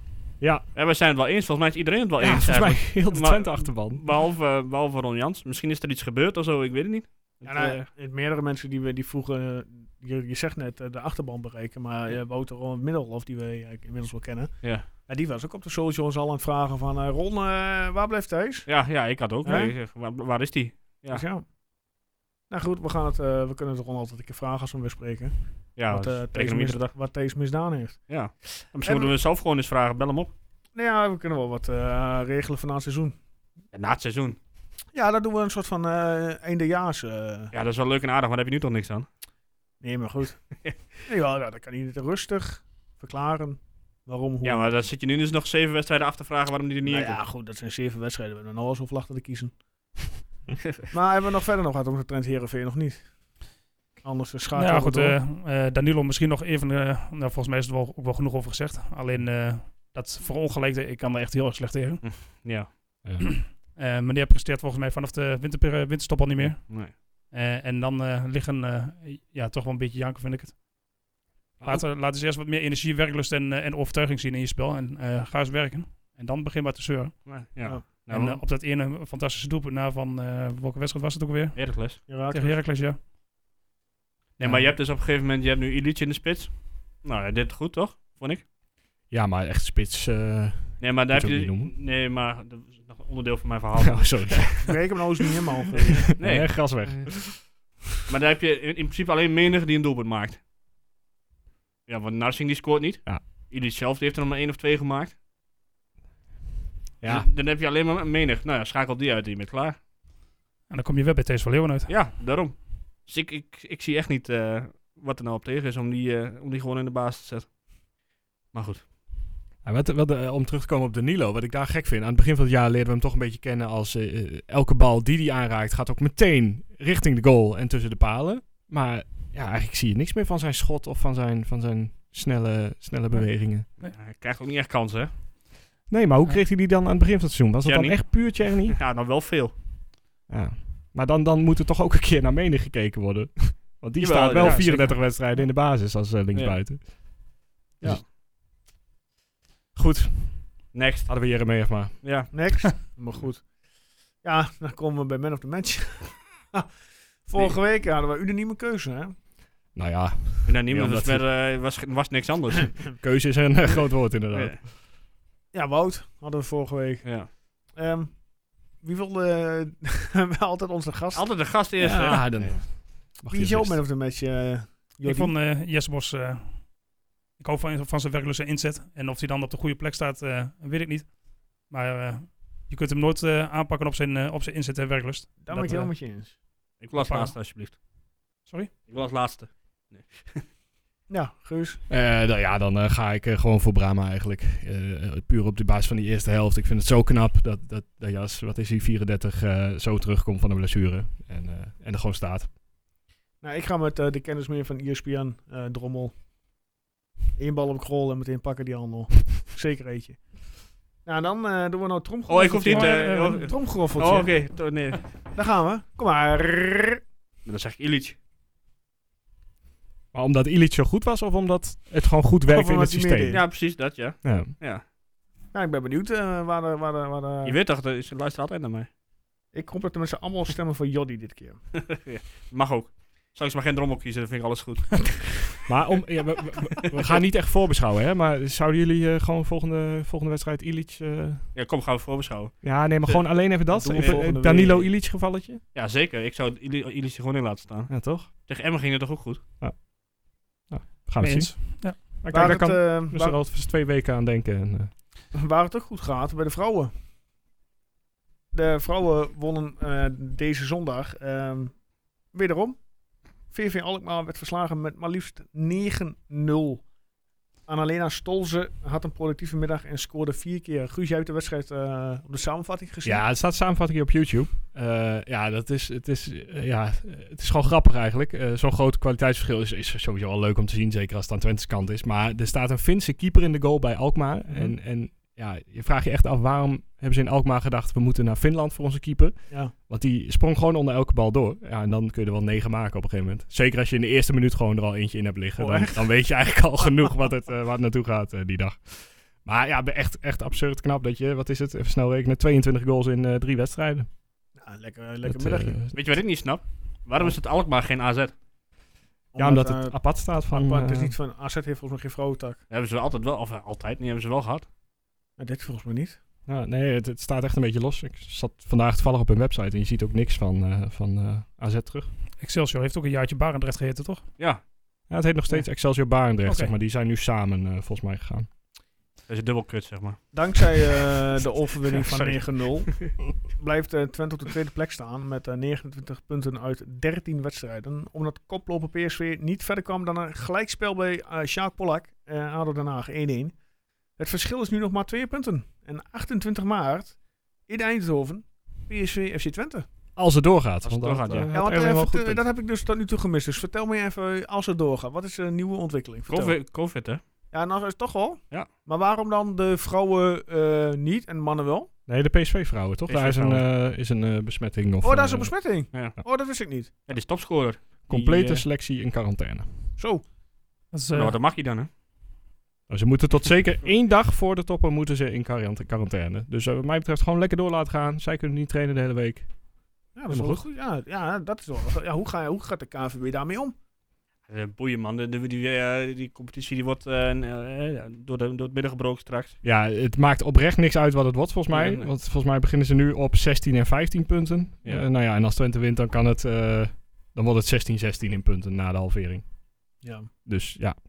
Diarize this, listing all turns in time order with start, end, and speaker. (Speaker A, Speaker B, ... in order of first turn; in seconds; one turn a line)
Speaker A: 0.4-0.7
Speaker B: 0.7-7.9
Speaker A: 2.3-4.0
Speaker C: 7.4-18.7
Speaker B: 18.7-21.2
Speaker C: 19.4-19.8
Speaker C: 21.1-21.4
Speaker C: 22.5-28.0
Speaker B: 25.8-26.9
Speaker B: 28.1-30.3
Speaker C: 28.8-29.1
Speaker C: 30.7-33.1
Speaker B: 33.7-34.4
Speaker C: 34.9-37.5
Speaker B: 37.5-39.1
Speaker C: 39.8-40.4
Speaker C: 41.0-44.7
Speaker B: 44.4-47.2
Speaker C: 46.8-49.5
Speaker C: 50.9-53.1
Speaker C: 54.0-55.2
Speaker D: 54.5-62.5
Speaker B: 62.0-63.0
Speaker A: 63.0-63.4
Speaker D: 63.2-70.6
Speaker B: 66.6-67.0
Speaker D: 71.6-83.0
Speaker B: 77.2-78.4
Speaker B: 81.5-82.1
Speaker C: 82.1-82.6
Speaker D: 84.4-84.6
Speaker B: 84.4-88.4
Speaker A: 89.1-91.7
Speaker B: 90.8-94.5
Speaker A: 93.8-94.8
Speaker C: 94.6-96.0
Speaker A: 96.1-97.5
Speaker B: 96.2-96.9
Speaker B: 98.1-100.4
Speaker B: 101.9-105.2
Speaker A: 107.0-107.3
Speaker B: 107.0-109.8
Speaker D: 110.7-112.2
Speaker B: 111.9-117.5
Speaker B: 118.5-118.8
Speaker A: 119.6-133.7
Speaker B: 133.8-135.1
Speaker A: 135.9-138.8
Speaker B: 137.6-139.5
Speaker A: 140.3-146.9
Speaker B: 144.0-144.8
Speaker D: 144.4-145.4
Speaker B: 146.3-146.6
Speaker A: 149.7-152.3
Speaker B: 150.7-152.3
Speaker C: 152.3-153.5
Speaker C: 154.2-159.1
Speaker A: 159.7-161.3
Speaker B: 160.4-162.9
Speaker A: 163.0-164.7
Speaker B: 164.3-164.6
Speaker C: 165.5-171.3
Speaker B: 167.0-167.3
Speaker B: 171.1-172.6
Speaker A: 171.8-173.8
Speaker C: 173.3-175.3
Speaker D: 175.0-176.7
Speaker D: 177.4-186.0
Speaker C: 185.4-186.3
Speaker B: 186.8-187.8
Speaker D: 186.9-187.4
Speaker D: 188.4-188.7
Speaker B: 188.8-190.4
Speaker C: 191.1-191.8
Speaker A: 191.9-202.5
Speaker C: 203.4-206.1
Speaker C: 207.3-210.2
Speaker C: 211.0-214.8
Speaker B: 212.3-215.0
Speaker D: 212.7-213.7
Speaker C: 215.3-217.0
Speaker B: 217.4-218.2
Speaker A: 220.1-223.7
Speaker C: 222.5-223.4
Speaker B: 223.3-224.8
Speaker A: 224.2-224.5
Speaker C: 225.5-227.6
Speaker B: 227.4-228.9
Speaker C: 229.5-231.6
Speaker B: 231.9-235.6
Speaker A: 235.7-241.5
Speaker B: 241.5-243.3
Speaker A: 242.6-245.6
Speaker C: 243.7-244.9
Speaker B: 245.7-249.4
Speaker A: 247.9-248.3
Speaker A: 249.6-249.9
Speaker A: 250.6-254.9
Speaker D: 251.2-252.0
Speaker C: 252.3-253.4
Speaker C: 255.3-256.9
Speaker C: 258.5-262.8
Speaker C: 263.5-266.9
Speaker C: 267.7-273.2
Speaker A: 273.0-304.1
Speaker C: 295.6-296.1
Speaker C: 304.6-305.8
Speaker A: 305.2-306.0
Speaker B: 305.9-308.3
Speaker C: 309.3-312.6
Speaker A: 309.4-311.1
Speaker B: 312.7-314.7
Speaker C: 315.4-316.2
Speaker A: 316.5-322.1
Speaker D: 322.4-324.3
Speaker B: 324.4-324.6
Speaker A: 325.1-328.5
Speaker D: 326.4-326.7
Speaker B: 329.3-330.3
Speaker C: 330.3-343.5
Speaker B: 331.9-333.1
Speaker C: 344.2-347.1
Speaker C: 347.7-349.9
Speaker A: 350.1-352.4
Speaker B: 350.8-351.5
Speaker C: 351.5-356.6
Speaker B: 356.3-357.2
Speaker C: 357.5-361.9
Speaker A: 362.1-365.6
Speaker B: 363.1-363.6
Speaker C: 365.0-366.9
Speaker B: 365.9-366.2
Speaker B: 367.1-368.6
Speaker A: 368.1-369.7
Speaker C: 370.0-370.2
Speaker D: 370.9-371.4
Speaker B: 371.1-371.9
Speaker A: 372.9-379.5
Speaker C: 380.1-383.7
Speaker A: 380.3-380.6
Speaker B: 384.5-389.6
Speaker A: 389.6-399.4
Speaker B: 391.7-392.1
Speaker C: 400.0-400.3
Speaker A: 400.4-400.9